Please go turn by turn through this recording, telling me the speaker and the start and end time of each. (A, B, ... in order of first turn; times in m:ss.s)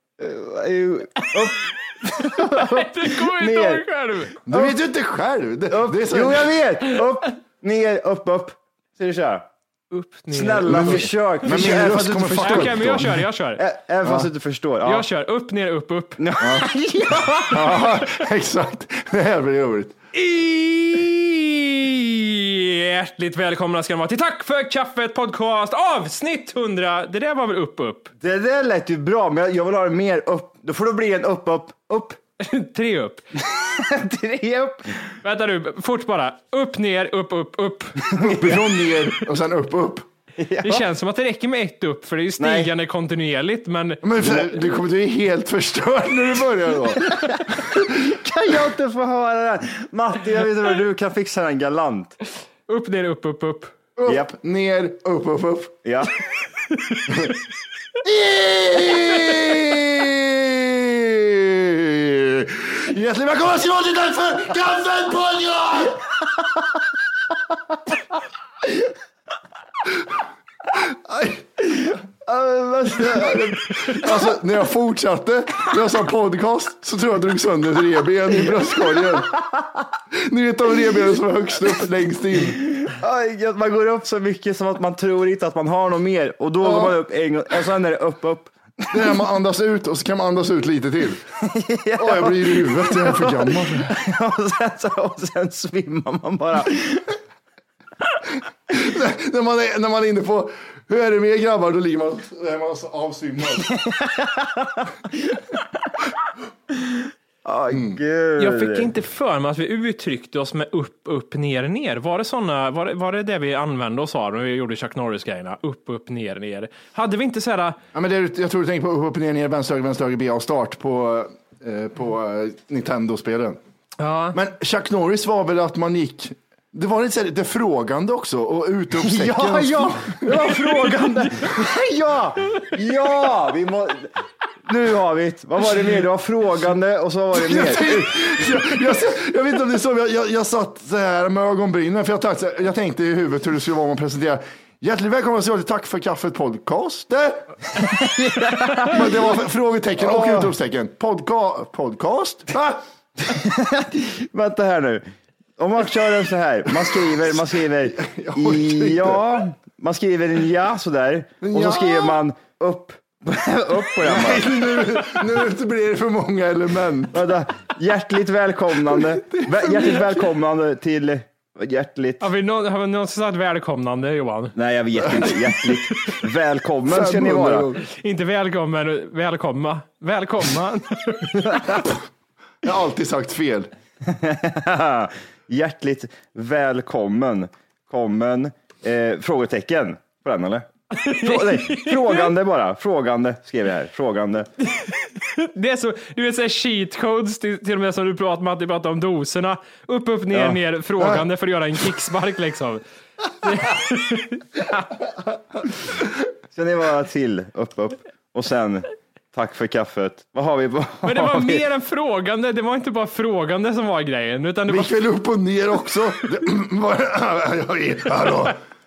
0:00.2-0:03.8 A
0:02.2-0:04.4 B
0:04.4-0:04.8 A
0:04.5-0:06.6 C
0:05.7-0:09.5 A
0:09.9-0:11.1 B
0:10.3-0:15.1 A
0:10.7-0:13.2 C
0:12.4-0:13.6 B
0:14.8-0:16.2 B
0:16.2-0:17.8 A
0:16.4-0:16.7 C
0:17.5-0:20.0 C
0:20.1-0:28.1 B
0:28.2-0:32.2 A
0:32.4-0:33.2 B
0:33.4-0:35.2 A
0:35.2-0:38.1 B
0:38.0-0:39.0 A
0:38.2-0:40.1 C
0:40.4-0:40.8 A
0:40.6-0:44.0 B
0:42.4-0:42.7 A
0:44.0-0:47.9 C
0:47.0-0:52.2 A
0:52.7-0:53.7 B
0:54.0-0:55.8 C
0:54.1-0:54.3 A
0:55.8-0:56.2 A
0:56.8-0:57.1 B
0:58.0-1:06.1 C
1:10.7-1:19.4 C
1:20.1-1:22.7 C
1:22.6-1:29.1 A
1:26.6-1:27.0 C
1:28.9-1:31.2 C
1:31.4-1:37.2 A
1:32.0-1:34.0 C
1:38.7-1:43.7 C
1:43.7-1:45.4 A
1:46.8-1:48.9 A
1:47.7-1:48.0 C
1:48.4-1:57.8 B
1:57.9-2:03.6 C
2:04.0-2:04.4 B
2:04.3-2:10.5 C
2:09.0-2:14.1 A
2:14.7-2:18.4 A
2:17.3-2:27.5 C
2:27.8-2:29.0 A
2:28.8-2:32.8 C
2:30.0-2:30.5 A
2:33.2-2:35.1 A
2:35.6-2:45.1 A
2:37.9-2:39.4 C
2:41.4-2:42.2 C
2:44.0-2:47.2 C
2:47.1-2:52.2 A
2:48.9-2:50.3 C
2:52.2-2:54.5 B
2:54.6-2:57.7 A
2:55.2-2:56.2 B
2:56.9-2:57.8 C
2:57.9-3:01.6 B
3:02.6-3:03.7 C
3:04.0-3:10.7 A
3:10.9-3:12.3 B
3:11.2-3:14.5 A
3:14.7-3:22.8 B
3:20.3-3:20.6 A
3:23.4-3:24.9 B
3:26.5-3:31.6 A
3:31.0-3:35.0 B
3:34.7-3:38.6 C